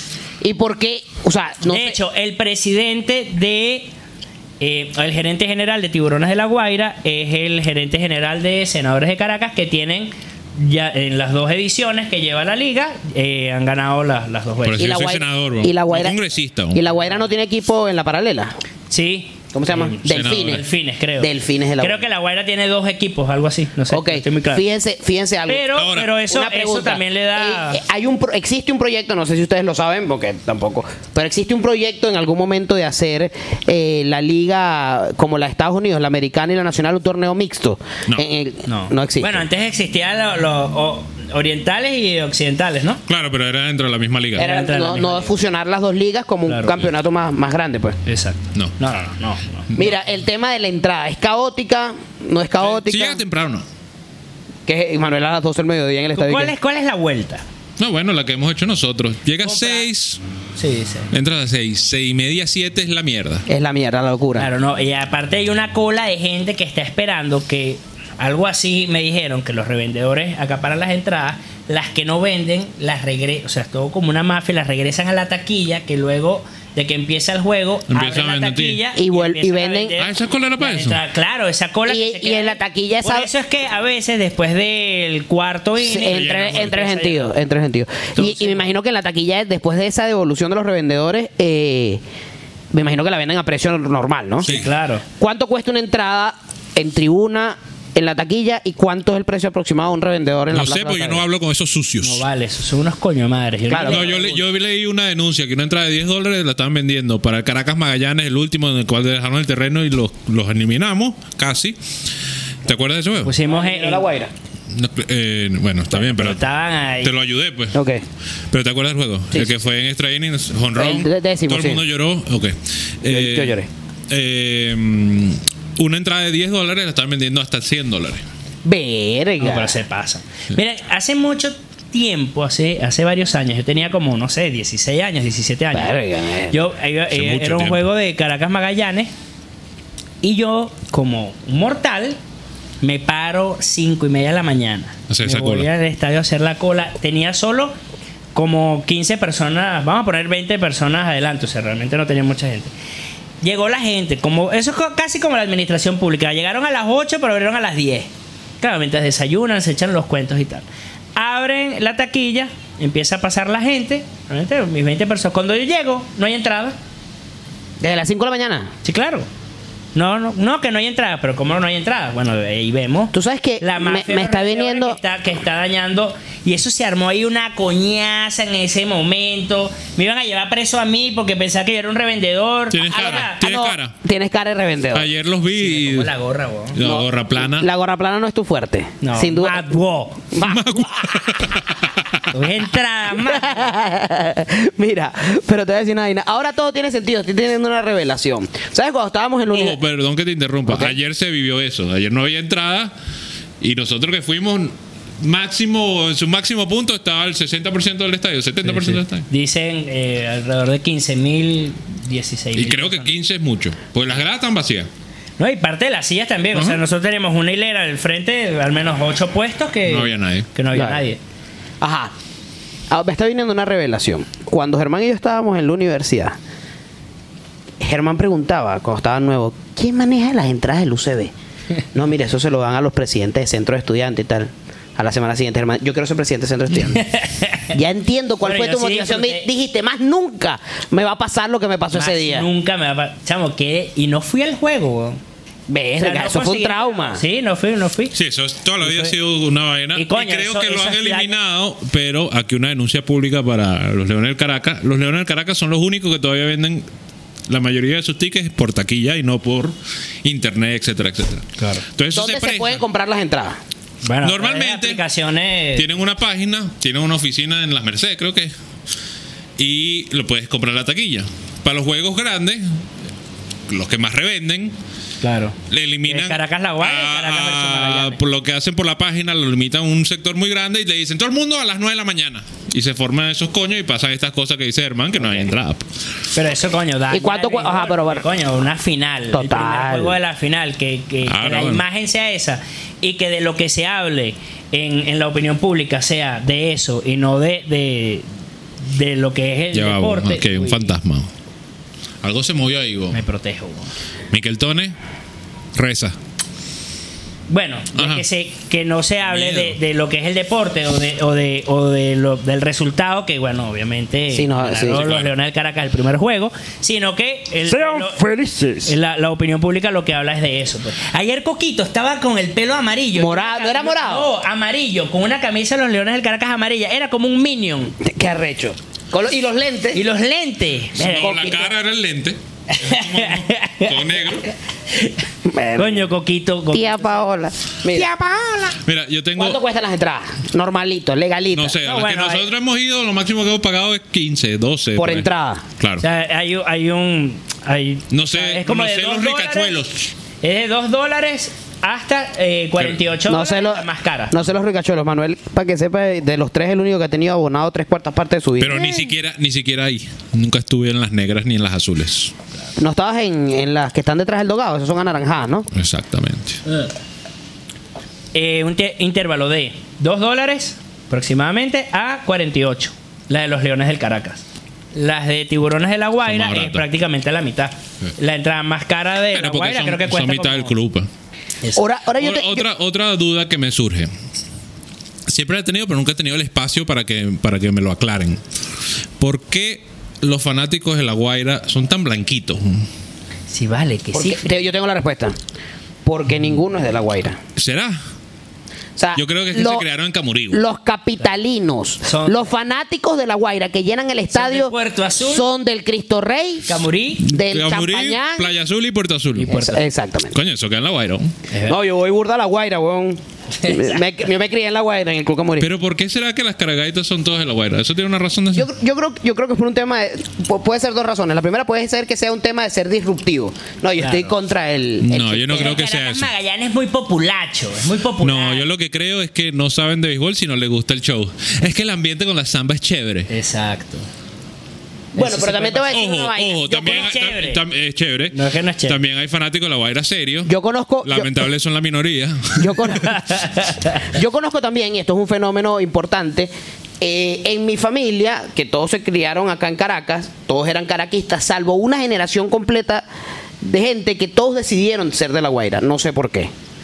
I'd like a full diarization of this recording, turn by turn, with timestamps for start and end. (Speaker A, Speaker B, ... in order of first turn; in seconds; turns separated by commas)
Speaker A: 0.4-2.0, Speaker B: 1.7-3.9, Speaker B: 4.6-14.9, Speaker C: 14.7-16.8, Speaker A: 14.8-16.2, Speaker A: 16.7-18.5, Speaker B: 18.9-24.6, Speaker A: 19.5-20.6, Speaker C: 20.1-20.6, Speaker A: 21.2-22.0, Speaker A: 23.9-25.7, Speaker B: 25.5-27.8, Speaker C: 25.8-26.2, Speaker A: 26.3-39.4, Speaker B: 38.7-43.0, Speaker C: 43.1-44.6, Speaker A: 44.4-48.0, Speaker B: 44.4-45.3, Speaker B: 46.5-46.8, Speaker B: 48.1-49.7, Speaker A: 49.8-53.2, Speaker C: 52.6-53.7, Speaker A: 54.7-56.5, Speaker B: 56.1-57.4, Speaker C: 57.8-60.2, Speaker B: 59.4-59.9, Speaker B: 60.6-61.1, Speaker C: 61.1-63.5, Speaker A: 63.5-64.5, Speaker B: 64.4-87.3, Speaker C: 77.9-78.8, Speaker A: 78.9-80.0, Speaker C: 80.0-81.0, Speaker A: 81.9-83.3, Speaker A: 85.8-92.0, Speaker C: 86.1-86.8, Speaker B: 88.2-88.7, Speaker A: 92.7-94.5, Speaker B: 94.4-95.0, Speaker A: 95.2-101.2, Speaker C: 100.5-102.2, Speaker B: 102.0-104.4, Speaker A: 103.7-104.4, Speaker C: 103.8-111.8, Speaker C: 112.7-113.3, Speaker B: 113.2-114.1, Speaker A: 113.5-114.3, Speaker C: 114.7-116.5, Speaker B: 116.0-117.1, Speaker C: 117.0-117.8, Speaker A: 117.7-118.0, Speaker C: 118.5-128.2, Speaker A: 120.8-121.8, Speaker A: 123.1-123.7, Speaker A: 128.7-129.7, Speaker B: 129.4-136.0, Speaker A: 135.7-136.7, Speaker B: 136.5-139.1, Speaker C: 137.1-137.8, Speaker B: 140.2-142.2, Speaker B: 142.8-147.8, Speaker C: 145.1-145.7, Speaker B: 148.3-152.7, Speaker B: 153.4-158.1, Speaker B: 158.6-166.8, Speaker A: 167.8-168.7, Speaker B: 168.8-169.3, Speaker B: 169.9-183.4, Speaker A: 173.1-175.0, Speaker C: 182.7-183.9, Speaker A: 183.0-185.1, Speaker C: 184.9-186.1, Speaker B: 185.5-186.8, Speaker C: 186.7-187.7, Speaker A: 186.8-189.7, Speaker B: 189.0-190.3, Speaker A: 190.3-191.2, Speaker C: 190.4-192.3, Speaker B: 192.3-193.7, Speaker A: 193.2-199.8, Speaker C: 199.5-202.9, Speaker A: 200.7-200.9, Speaker C: 203.6-209.3, Speaker B: 208.6-213.1, Speaker C: 212.6-214.9, Speaker B: 215.4-221.2, Speaker C: 216.5-216.8, Speaker C: 219.9-220.5, Speaker A: 220.7-221.0, Speaker A: 221.8-222.1, Speaker A: 222.9-226.4, Speaker A: 227.8-231.3, Speaker A: 231.9-237.1, Speaker B: 236.9-237.7, Speaker A: 237.7-242.5, Speaker B: 238.4-239.5, Speaker B: 241.9-245.2, Speaker A: 245.7-247.2, Speaker B: 246.0-248.2, Speaker C: 248.1-256.9, Speaker B: 248.8-249.1, Speaker B: 249.9-251.4, Speaker C: 257.5-262.8, Speaker B: 261.6-261.9, Speaker A: 262.1-263.6, Speaker B: 264.0-265.9, Speaker C: 264.2-265.0, Speaker C: 265.8-268.5, Speaker C: 269.6-272.7, Speaker C: 273.7-274.8, Speaker B: 275.2-278.2, Speaker C: 275.7-285.9, Speaker B: 286.3-298.3, Speaker A: 287.1-288.3, Speaker A: 289.3-290.2, Speaker C: 291.3-291.8, Speaker B: 298.8-300.9, Speaker C: 299.7-301.3, Speaker C: 302.2-303.2, Speaker B: 303.1-303.9, Speaker C: 304.3-304.9, Speaker C: 305.8-306.1, Speaker B: 307.5-318.3, Speaker C: 308.0-308.2, Speaker C: 309.2-309.8, Speaker A: 314.3-315.1, Speaker C: 314.9-315.3, Speaker A: 318.2-318.7, Speaker B: 318.8-328.0, Speaker A: 323.1-324.3, Speaker A: 328.0-330.0, Speaker B: 329.9-331.2, Speaker C: 331.0-334.5, Speaker A: 331.0-331.7, Speaker B: 332.7-334.1, Speaker A: 335.4-336.1, Speaker B: 335.8-337.2, Speaker A: 336.7-338.1, Speaker B: 338.0-338.7, Speaker C: 338.8-339.6, Speaker A: 339.4-341.8, Speaker C: 341.5-345.3, Speaker B: 341.8-342.4, Speaker A: 345.0-345.6, Speaker C: 345.8-346.0, Speaker B: 346.0-349.8, Speaker C: 348.1-350.1, Speaker B: 350.4-354.4, Speaker A: 353.3-359.1, Speaker C: 358.6-362.3, Speaker A: 362.8-365.7, Speaker C: 365.7-366.6, Speaker B: 368.3-380.7, Speaker C: 376.3-376.9, Speaker C: 379.3-381.1, Speaker A: 381.8-382.6, Speaker C: 382.1-384.1, Speaker C: 385.3-388.4, Speaker C: 389.2-392.9, Speaker B: 393.5-394.6, Speaker A: 394.1-395.4, Speaker A: 396.1-397.4, Speaker C: 397.6-398.0, Speaker A: 399.0-399.9, Speaker C: 399.1-400.6, Speaker A: 400.5-408.5, Speaker B: 402.0-402.5, Speaker B: 404.3-405.5, Speaker B: 406.7-407.2, Speaker C: 407.3-409.6, Speaker B: 409.4-409.8, Speaker A: 409.5-410.4, Speaker C: 410.3-411.3, Speaker B: 411.5-411.8, Speaker A: 411.6-415.7, Speaker B: 413.6-414.0, Speaker C: 415.6-418.7, Speaker A: 418.5-425.8, Speaker B: 424.0-424.3, Speaker C: 425.0-426.3, Speaker B: 425.5-428.7, Speaker C: 428.2-433.3, Speaker B: 433.3-434.1, Speaker A: 435.1-437.1, Speaker B: 435.2-436.0, Speaker C: 435.9-440.5, Speaker B: 436.7-437.6, Speaker B: 438.3-439.0, Speaker A: 440.5-441.5, Speaker C: 441.0-443.2, Speaker A: 442.6-443.4, Speaker B: 443.2-443.9, Speaker A: 444.0-453.1, Speaker A: 453.6-456.5